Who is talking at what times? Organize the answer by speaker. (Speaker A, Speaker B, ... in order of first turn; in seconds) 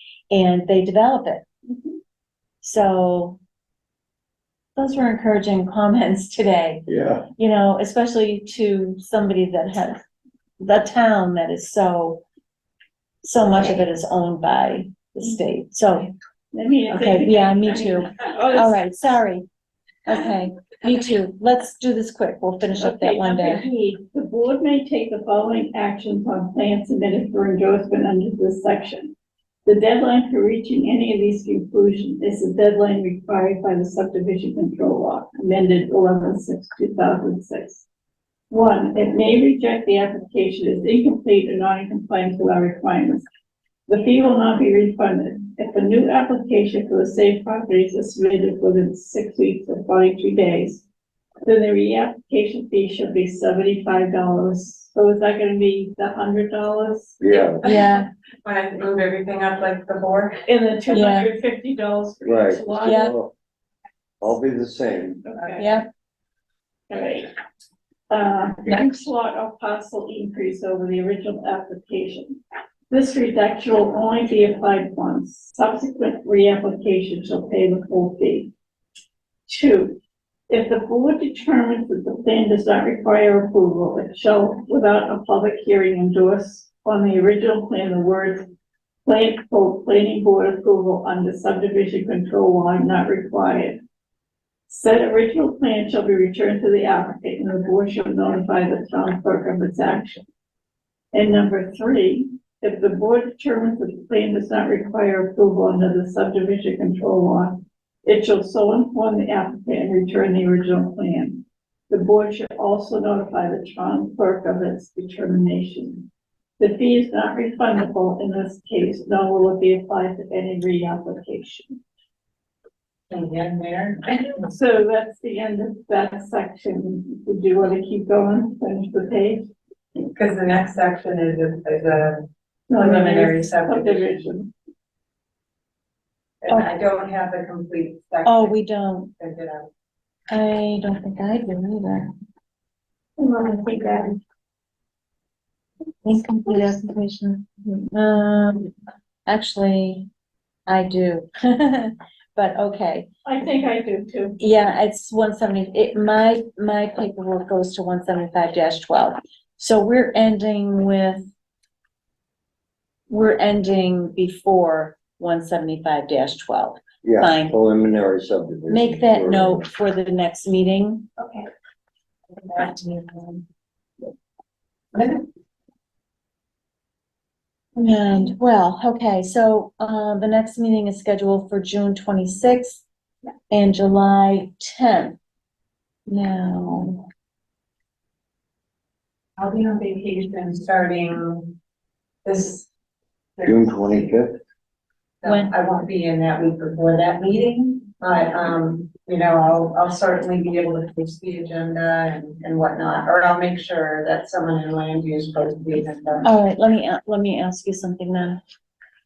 Speaker A: 0.3-1.4, 2.6-3.4, 4.8-6.8, 7.4-10.0, 10.6-12.2, 13.2-16.1, 16.9-19.5, 20.1-23.6, 57.6-58.1, 60.9-61.3, 62.8-63.1, 65.6-65.9, 68.7-69.0, 138.2-139.1, 140.3-142.1, 146.0-148.7, 149.2-150.1, 150.7-153.1, 154.4-161.3, 163.1-167.6, 168.7-171.1, 177.8-182.8, 183.5-185.2, 186.1-187.0, 195.2-195.5, 206.2-208.4
Speaker B: 6.9-7.3, 57.2-57.6, 62.2-63.3, 64.2-65.2, 167.0-169.7, 193.4-194.4
Speaker C: 16.5-18.8, 22.8-37.8, 38.5-43.3, 43.9-50.8, 51.5-57.2, 60.5-63.0, 65.3-65.7, 66.9-67.3, 68.1-72.4, 72.9-78.5, 79.5-80.0, 80.5-88.4, 89.0-93.8, 94.7-100.2, 101.1-116.1, 116.6-121.8, 124.5-129.5, 132.7-134.5, 143.2-144.2, 153.2-154.4
Speaker D: 57.6-60.5, 123.1-124.5, 130.1-134.2, 136.4-138.6, 139.2-139.7, 172.4-173.4, 174.9-175.2, 189.4-191.6, 192.2-192.7, 193.4-193.8, 195.2-206.3